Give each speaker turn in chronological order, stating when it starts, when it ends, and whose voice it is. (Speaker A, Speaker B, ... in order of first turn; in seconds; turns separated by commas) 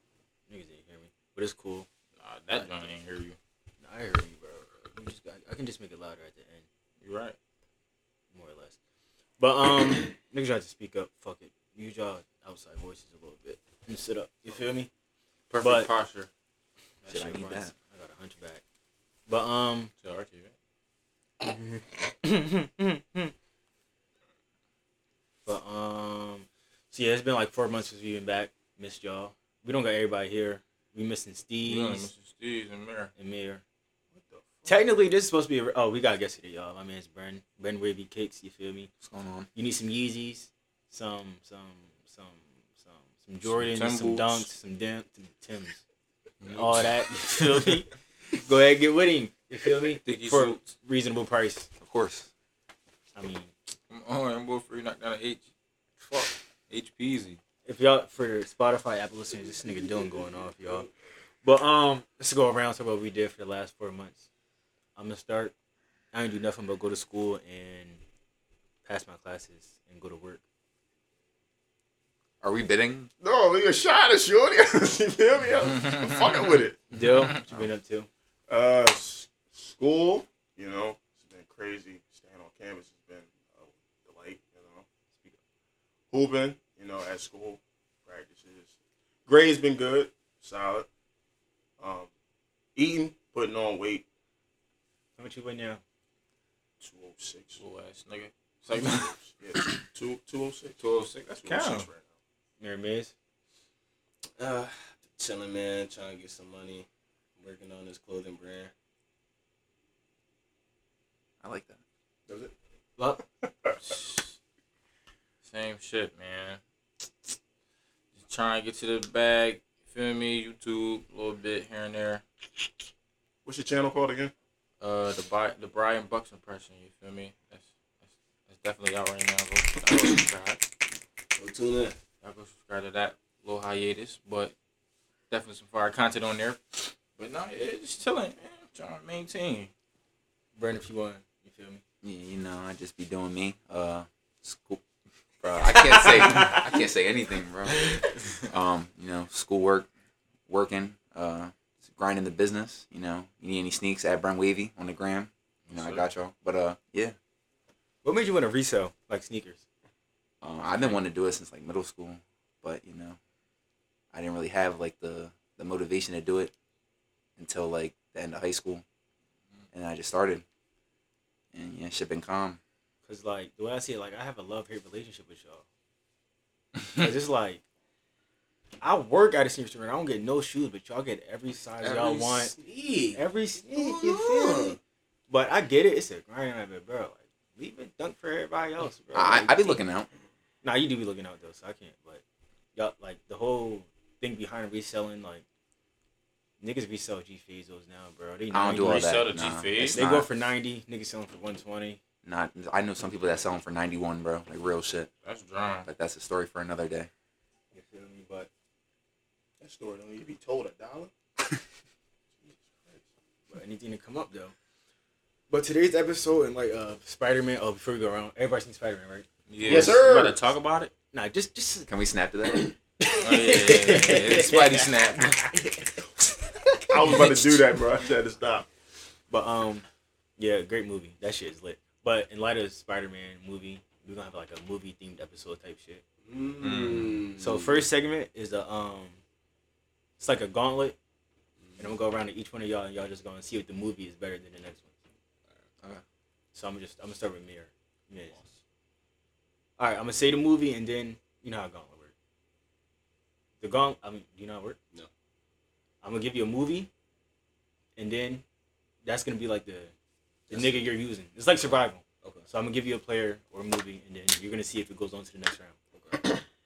Speaker A: 0.5-1.9, Speaker B: 2.2-3.4, Speaker A: 2.5-2.9, Speaker A: 3.8-6.6, Speaker B: 7.0-7.3, Speaker A: 8.3-8.8, Speaker A: 9.4-14.9, Speaker B: 15.5-16.3, Speaker A: 15.6-15.9, Speaker A: 17.0-18.6, Speaker C: 17.1-17.7, Speaker A: 19.3-19.9, Speaker B: 20.0-20.5, Speaker A: 21.4-23.3, Speaker A: 25.4-32.1, Speaker B: 31.6-33.1, Speaker A: 33.2-33.6, Speaker D: 34.1-34.8, Speaker A: 34.6-38.9, Speaker C: 39.0-39.5, Speaker A: 39.5-45.8, Speaker B: 43.4-44.5, Speaker B: 46.4-46.9, Speaker A: 46.5-47.9, Speaker A: 48.4-51.7, Speaker B: 50.0-50.6, Speaker C: 51.8-52.3, Speaker A: 53.1-53.5, Speaker B: 53.9-55.4, Speaker B: 56.1-57.4, Speaker A: 57.6-60.9, Speaker A: 61.4-64.3, Speaker A: 65.0-65.5, Speaker A: 66.1-68.0, Speaker A: 68.8-70.4, Speaker C: 72.4-73.1, Speaker D: 73.2-76.8, Speaker B: 75.6-77.4, Speaker A: 76.9-78.1, Speaker D: 78.5-84.8, Speaker D: 86.1-88.7, Speaker D: 89.2-90.9, Speaker D: 91.8-92.1, Speaker D: 92.7-94.0, Speaker A: 95.2-95.8, Speaker D: 96.8-97.6, Speaker B: 97.6-99.8, Speaker D: 98.7-102.0, Speaker B: 100.8-101.9, Speaker A: 102.6-103.1, Speaker E: 104.4-106.9, Speaker E: 107.4-108.7, Speaker C: 111.4-111.8, Speaker D: 113.4-113.7, Speaker B: 113.8-114.3, Speaker B: 115.4-116.6, Speaker B: 118.1-122.2, Speaker D: 123.4-124.3, Speaker B: 124.8-127.7, Speaker B: 128.5-130.7, Speaker E: 131.4-131.9, Speaker B: 132.2-134.5, Speaker B: 135.3-139.7, Speaker A: 140.6-141.8, Speaker C: 142.0-144.8, Speaker C: 145.4-149.9, Speaker A: 145.7-146.6, Speaker C: 150.5-157.2, Speaker B: 155.7-156.1, Speaker A: 158.0-159.6, Speaker C: 160.4-163.2, Speaker C: 164.1-166.5, Speaker C: 167.4-168.8, Speaker C: 169.7-170.4, Speaker C: 171.5-172.6, Speaker A: 173.1-175.6, Speaker B: 176.8-177.1, Speaker A: 177.0-177.6, Speaker A: 178.8-182.5, Speaker E: 181.8-184.8, Speaker A: 183.1-184.8, Speaker A: 185.3-189.8, Speaker C: 189.1-190.1, Speaker A: 190.6-192.2, Speaker A: 192.7-195.4, Speaker A: 196.6-199.1, Speaker C: 198.5-200.3, Speaker B: 198.8-200.0, Speaker A: 199.9-202.0, Speaker C: 202.2-205.1, Speaker B: 205.2-205.9, Speaker C: 205.8-207.1, Speaker A: 207.7-208.5, Speaker D: 209.6-211.1, Speaker D: 212.5-213.0, Speaker A: 213.5-214.5, Speaker A: 215.5-219.9, Speaker B: 219.5-220.9, Speaker D: 219.6-220.5, Speaker A: 221.1-221.9, Speaker C: 221.9-222.7, Speaker A: 222.5-225.8, Speaker B: 223.2-225.3, Speaker C: 224.0-225.1, Speaker A: 226.9-227.5, Speaker D: 226.9-228.7, Speaker A: 229.3-229.8, Speaker A: 230.4-236.0, Speaker E: 236.2-237.8, Speaker C: 236.6-237.2, Speaker A: 237.4-239.2, Speaker A: 240.2-241.0, Speaker E: 241.6-241.9, Speaker A: 241.8-244.9, Speaker A: 246.5-248.4, Speaker A: 249.8-252.1, Speaker A: 253.6-254.8, Speaker A: 256.0-256.9, Speaker A: 257.9-258.4, Speaker A: 259.0-259.9, Speaker A: 260.5-265.8, Speaker E: 260.5-260.9, Speaker E: 265.9-266.3